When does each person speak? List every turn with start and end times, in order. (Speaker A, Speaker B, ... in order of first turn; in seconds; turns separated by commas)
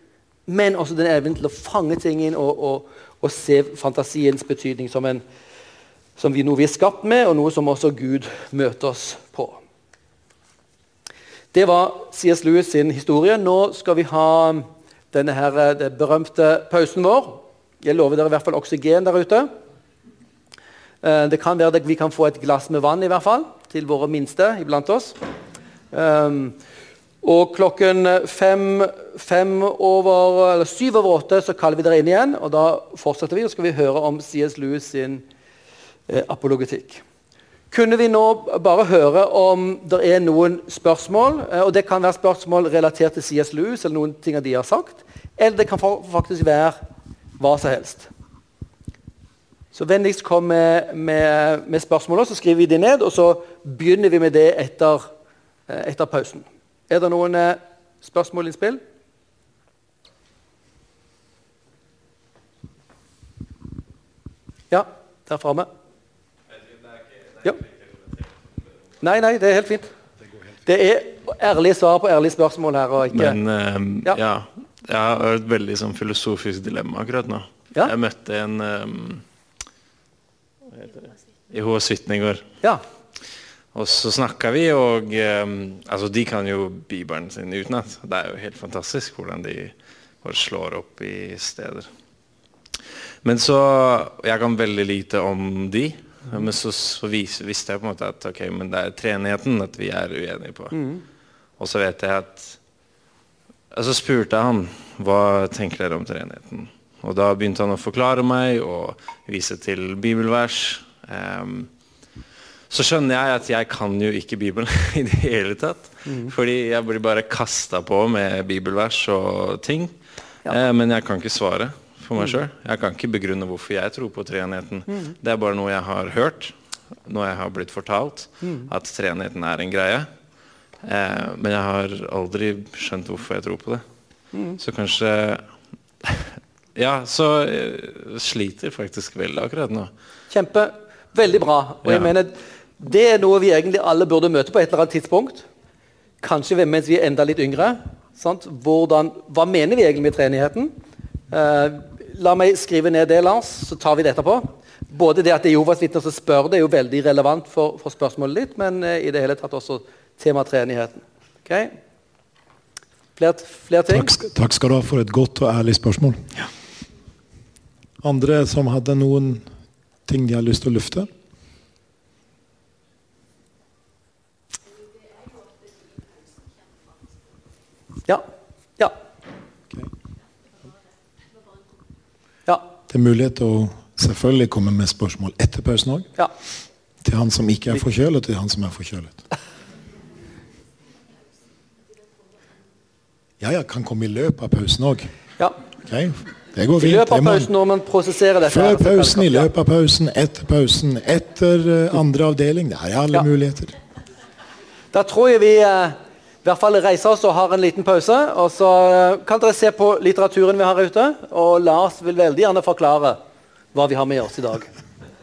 Speaker A: 0.5-5.2, Speaker A: 6.2-9.6, Speaker A: 11.5-19.5, Speaker A: 21.0-25.2, Speaker A: 25.9-26.6, Speaker A: 27.2-35.2, Speaker A: 36.1-37.0, Speaker A: 37.7-46.8, Speaker A: 47.4-48.1, Speaker A: 49.7-55.1, Speaker A: 55.7-58.8, Speaker A: 64.7-65.7, Speaker A: 69.0-69.9, Speaker A: 70.7-73.4, Speaker B: 73.1-79.2, Speaker B: 80.8-82.5, Speaker B: 83.7-91.9, Speaker B: 93.2-100.8, Speaker A: 100.7-101.0, Speaker B: 101.6-102.6, Speaker B: 103.7-111.7, Speaker B: 112.7-120.0, Speaker A: 116.1-116.3, Speaker B: 120.5-126.5, Speaker B: 127.1-130.1, Speaker A: 128.4-128.7, Speaker B: 130.8-133.8, Speaker A: 134.3-134.6, Speaker B: 134.6-135.5, Speaker B: 136.0-139.9, Speaker A: 140.3-145.5, Speaker B: 141.8-142.1, Speaker A: 146.2-150.7, Speaker A: 151.3-161.8, Speaker A: 163.2-164.1, Speaker C: 163.9-166.5, Speaker C: 168.0-169.5, Speaker C: 170.1-171.1, Speaker C: 182.9-186.1, Speaker C: 187.0-189.2, Speaker C: 193.4-195.1, Speaker C: 195.8-197.5, Speaker A: 196.8-199.5, Speaker C: 198.4-203.7, Speaker A: 204.9-213.2, Speaker A: 213.7-214.7